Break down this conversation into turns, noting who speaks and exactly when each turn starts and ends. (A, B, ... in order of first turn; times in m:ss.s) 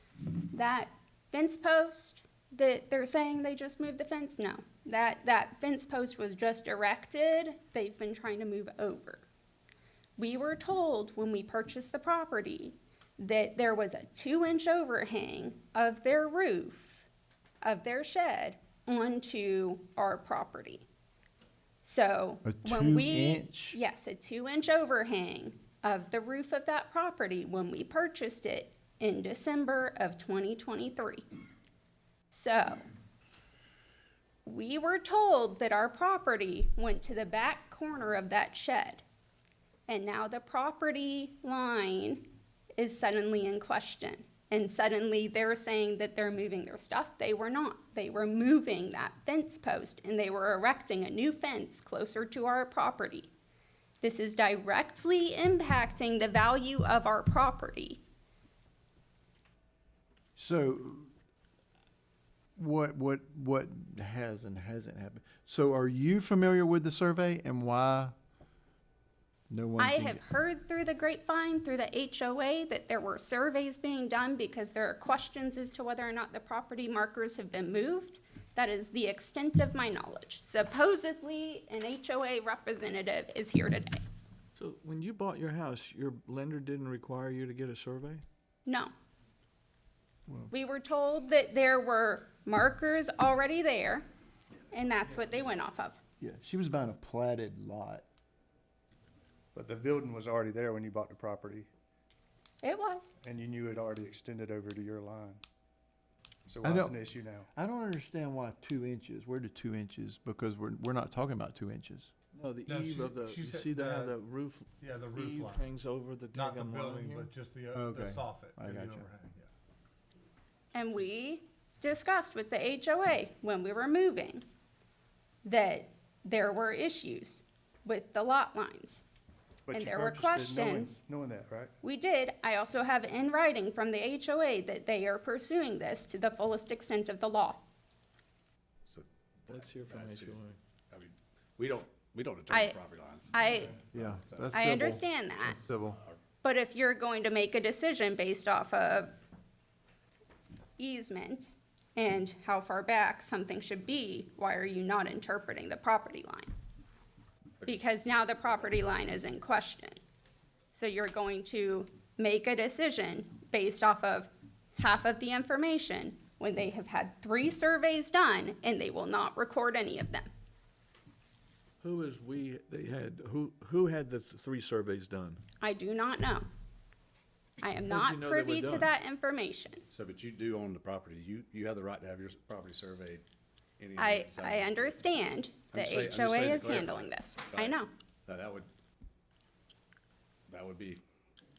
0:00.5-0:09.2 A
0:10.2-0:17.1 A
0:17.6-0:20.8 A
0:21.8-0:31.2 A
0:22.4-0:23.8 B
0:32.3-0:32.8 A
0:34.4-0:39.0 A
0:39.9-0:42.2 A
0:42.8-0:53.3 A
0:54.0-0:58.0 A
1:00.4-1:01.1 B
1:02.6-1:08.2 B
1:09.5-1:10.2 B
1:09.8-1:24.0 A
1:24.6-1:28.2 C
1:28.6-1:28.9 A
1:30.5-1:34.0 A
1:34.7-1:36.0 A
1:36.2-1:38.0 B
1:39.5-1:41.7 D
1:42.6-1:43.1 A
1:43.2-1:45.4 D
1:46.5-1:47.5 D
1:46.6-1:52.1 B
1:52.3-1:57.3 C
1:52.6-1:54.2 E
1:54.8-1:55.6 E
1:56.3-1:59.5 E
1:57.7-1:59.1 B
2:00.7-2:04.4 A
2:05.4-2:09.0 A
2:09.7-2:11.7 D
2:09.7-2:11.0 A
2:11.8-2:17.6 A
2:18.8-2:24.6 F
2:19.5-2:20.6 C
2:22.5-2:22.8 A
2:23.3-2:23.8 A
2:23.9-2:26.0 B
2:24.5-2:25.6 A
2:25.8-2:26.2 F
2:26.4-2:29.2 A
2:30.8-2:36.5 A
2:37.6-2:38.9 F
2:37.6-2:40.0 A
2:40.7-2:50.3 A
2:51.8-2:55.4 C
2:55.6-2:56.4 A
2:57.6-2:59.8 A
2:57.8-2:58.9 C
2:59.9-3:03.2 F
3:03.8-3:05.1 F
3:04.0-3:07.9 A
3:05.7-3:08.7 F
3:10.5-3:11.0 F